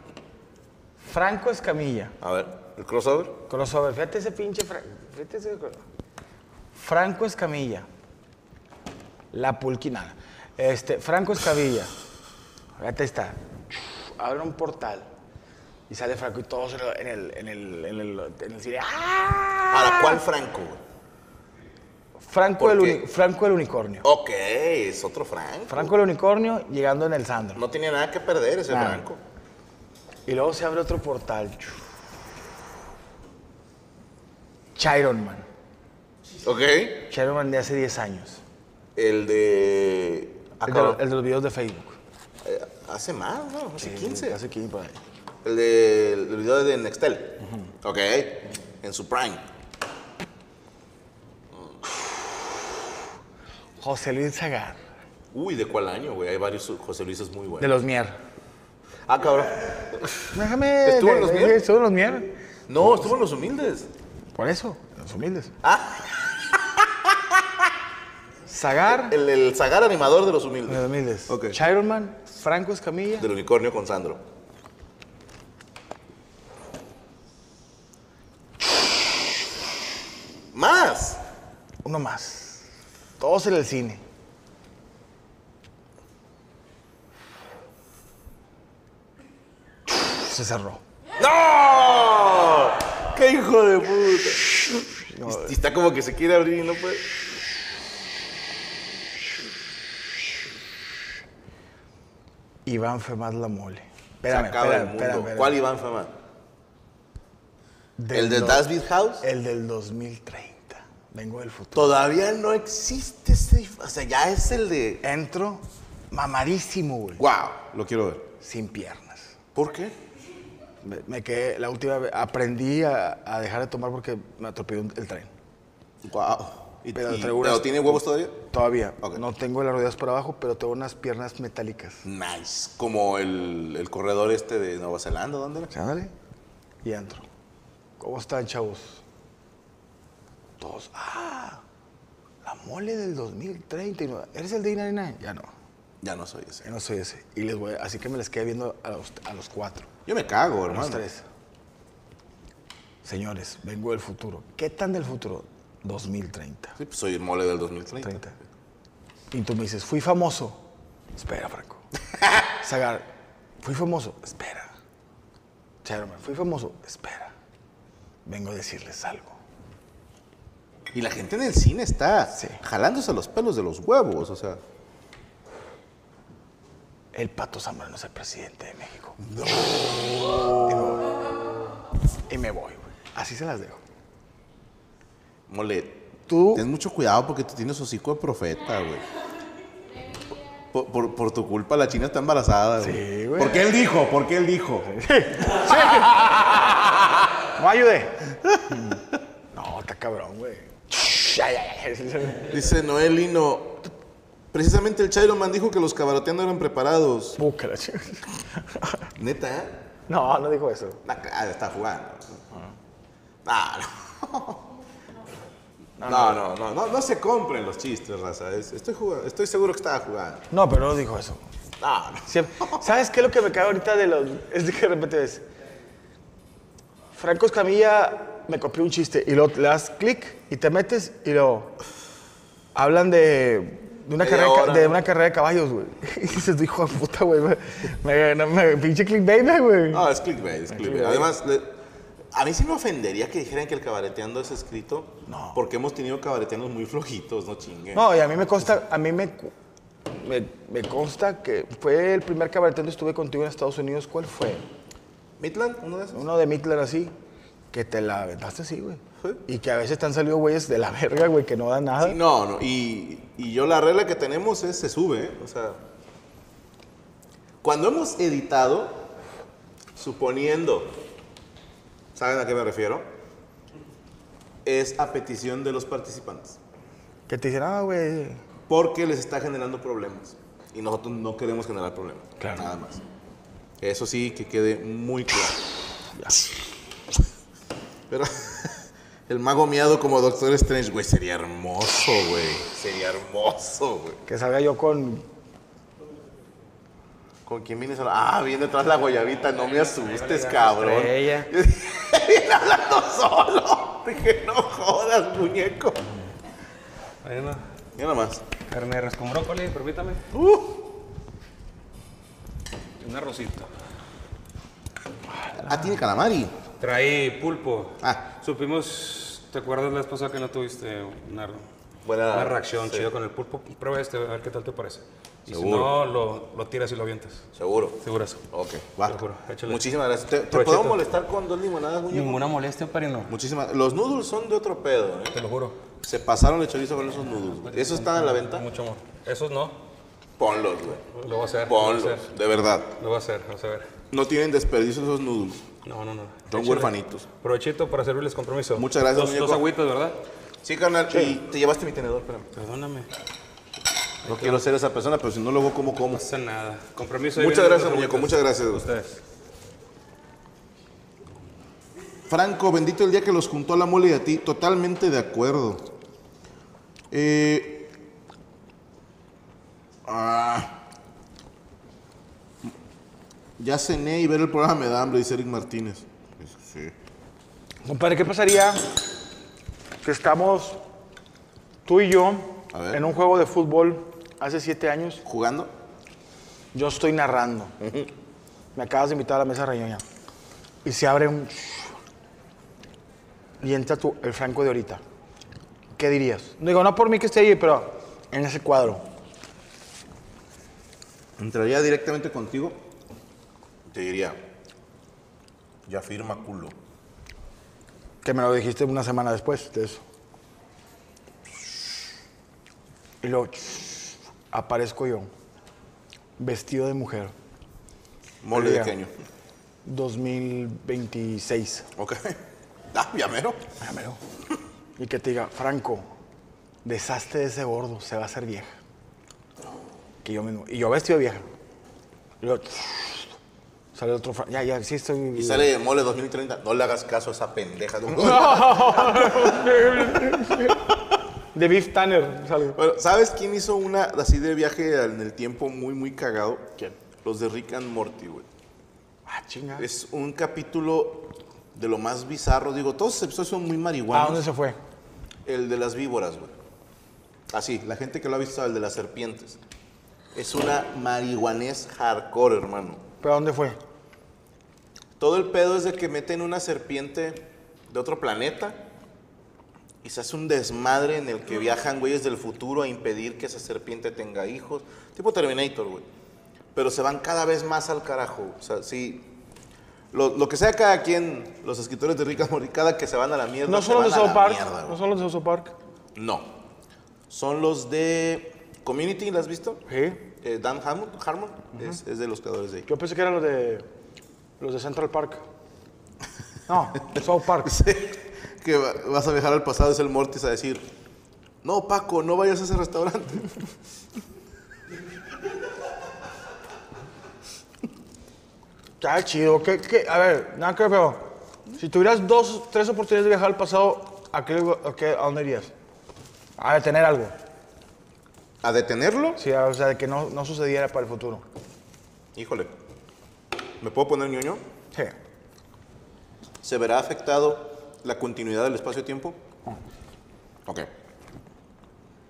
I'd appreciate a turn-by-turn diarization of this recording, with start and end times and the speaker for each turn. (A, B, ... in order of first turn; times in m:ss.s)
0:01.0-0:02.1 A
0:02.2-0:03.4 B
0:03.5-0:05.8 A
0:06.7-0:07.9 A
0:09.3-0:11.9 A
0:12.8-0:15.1 A
0:15.9-0:20.2 A
0:19.7-0:20.8 B
0:22.2-0:24.0 A
0:22.6-0:23.0 B
0:24.0-0:25.9 B
0:25.7-0:27.6 A
0:27.5-0:29.2 B
0:28.7-0:29.0 A
0:30.2-0:31.8 A
0:34.8-0:35.5 A
0:36.4-0:37.1 B
0:37.1-0:38.4 A
0:39.0-0:41.0 B
0:40.6-0:42.0 A
0:42.4-0:44.4 B
0:43.8-0:45.0 A
0:45.4-0:49.4 B
0:47.4-0:47.7 A
0:53.8-0:54.8 A
0:55.3-0:57.7 B
0:57.6-0:58.2 A
0:59.0-1:01.6 B
1:00.3-1:03.0 A
1:02.7-1:03.9 B
1:04.4-1:05.5 A
1:05.6-1:07.5 B
1:08.5-1:09.2 A
1:08.9-1:11.6 B
1:10.7-1:13.3 A
1:13.2-1:14.2 B
1:20.5-1:21.2 B
1:21.8-1:22.7 A
1:23.2-1:24.0 A
1:30.0-1:30.8 A
1:31.2-1:34.6 B
1:35.0-1:35.6 A
1:35.2-1:37.2 B
1:42.6-1:45.6 A
1:44.2-1:46.1 B
1:48.0-1:51.9 A
1:48.1-1:49.3 B
1:51.7-1:55.0 B
1:55.0-1:57.2 A
1:57.2-1:58.3 B
1:58.4-1:59.3 A
1:59.5-1:59.9 B
2:00.8-2:05.3 A
2:06.0-2:08.5 B
2:06.9-2:12.0 A
2:12.0-2:15.7 B
2:15.7-2:16.1 A
2:16.8-2:17.2 A
2:18.0-2:19.0 A
2:20.6-2:21.6 A
2:22.4-2:25.5 A
2:26.0-2:26.7 B
2:26.6-2:29.9 A
2:30.0-2:31.0 B
2:30.7-2:31.2 A
2:33.0-2:36.8 A
2:36.8-2:38.2 B
2:38.0-2:38.3 A
2:39.3-2:40.6 A
2:41.1-2:41.8 A
2:42.5-2:43.1 A
2:43.6-2:44.7 A
2:45.8-2:47.3 A
2:48.2-2:49.4 A
2:50.9-2:54.6 B
2:52.3-2:52.6 A
2:57.1-3:01.1 A
3:02.3-3:03.8 A
3:05.5-3:09.0 B
3:06.3-3:06.6 A
3:10.7-3:17.2 B
3:12.8-3:13.7 A
3:14.9-3:16.6 A
3:17.5-3:22.5 A
3:22.4-3:23.8 B
3:24.5-3:27.4 B
3:27.4-3:29.1 A
3:29.2-3:29.8 B
3:30.1-3:31.0 A
3:31.0-3:32.4 B
3:33.4-3:34.6 B
3:36.0-3:36.4 A
3:36.0-3:40.5 B
3:40.5-3:41.4 A
3:41.8-3:42.8 B
3:42.2-3:45.4 A
3:47.1-3:51.8 A
3:52.7-4:00.1 A
3:54.2-3:55.0 B
3:59.9-4:01.8 B
4:00.7-4:01.3 A
4:02.3-4:08.0 B
4:05.3-4:05.6 A
4:07.9-4:09.5 A
4:10.1-4:14.6 A
4:15.4-4:16.3 B
4:16.1-4:17.1 A
4:17.7-4:22.2 A
4:22.0-4:25.8 B
4:27.6-4:29.0 B
4:30.0-4:31.0 B
4:32.1-4:33.1 B
4:34.6-4:36.6 B
4:37.3-4:38.4 A
4:38.7-4:43.0 B
4:42.4-4:42.6 A
4:43.8-4:45.6 B
4:48.1-4:54.2 B
4:54.3-4:55.2 A
4:57.4-5:06.1 B
4:59.5-5:01.5 C
5:07.2-5:07.6 C
5:08.0-5:08.4 B
5:08.7-5:10.2 C
5:10.3-5:10.9 B
5:13.0-5:13.7 C
5:15.4-5:15.9 A
5:15.6-5:16.5 B
5:16.8-5:21.6 C
5:18.0-5:18.3 B
5:22.0-5:23.1 B
5:22.3-5:27.4 C
5:25.5-5:26.0 B
5:27.5-5:32.5 B
5:28.0-5:28.4 C
5:29.0-5:29.8 C
5:30.5-5:31.0 C
5:32.1-5:33.3 C
5:33.3-5:35.4 B
5:35.3-5:35.8 C
5:36.0-5:38.7 B
5:37.6-5:39.8 C
5:40.4-5:41.0 B
5:41.1-5:42.3 C
5:41.6-5:43.0 B
5:43.0-5:43.9 C
5:44.1-5:45.6 B
5:45.8-5:50.2 C
5:46.5-5:47.3 B
5:48.7-5:49.6 B
5:50.6-5:52.5 B
5:52.5-5:53.1 C
5:54.2-5:54.6 C
5:54.2-5:56.2 B
5:56.1-5:59.2 C
5:57.3-5:58.9 B
6:02.3-6:05.9 B
6:07.1-6:07.9 B
6:10.0-6:10.8 B
6:13.6-6:16.9 B
6:17.8-6:19.0 A
6:20.0-6:20.8 A
6:21.8-6:25.2 A
6:22.7-6:23.0 B
6:25.2-6:25.7 B
6:26.7-6:27.7 A
6:27.8-6:28.1 B
6:28.7-6:30.0 A
6:30.8-6:31.9 A
6:33.6-6:35.0 A
6:36.0-6:39.0 A
6:41.4-6:42.8 B
6:43.9-6:44.4 B
6:45.8-6:46.7 B
6:48.2-6:50.0 A
6:53.2-6:55.3 A
6:56.4-6:57.3 A
6:58.4-6:59.1 B
6:58.5-6:58.9 A
6:59.8-7:01.9 A
7:02.0-7:03.6 B
7:03.8-7:04.2 A
7:05.0-7:06.0 A
7:06.8-7:08.8 A
7:10.2-7:11.4 A
7:12.4-7:13.3 A
7:13.9-7:15.7 A
7:15.3-7:19.8 B
7:18.1-7:20.9 A
7:21.5-7:22.8 A
7:22.7-7:28.5 B
7:29.3-7:29.9 A
7:29.8-7:34.4 B
7:34.1-7:34.8 A
7:35.4-7:36.5 B
7:37.5-7:39.6 B
7:40.3-7:43.0 B
7:43.2-7:43.8 A
7:45.2-7:48.8 B
7:50.0-7:56.0 B
7:56.7-7:59.3 B
8:00.1-8:05.0 B
8:03.6-8:05.7 A
8:06.1-8:06.5 B
8:07.3-8:09.8 B
8:09.9-8:10.2 A
8:10.4-8:12.9 B
8:12.9-8:13.8 A
8:14.6-8:15.4 A
8:16.7-8:17.8 A
8:17.6-8:20.9 B
8:21.6-8:23.5 B
8:29.0-8:35.7 A
8:36.6-8:37.3 A
8:38.6-8:39.4 B
8:39.4-8:41.4 A
8:42.3-8:42.7 B
8:43.8-8:44.6 B
8:46.6-8:49.4 B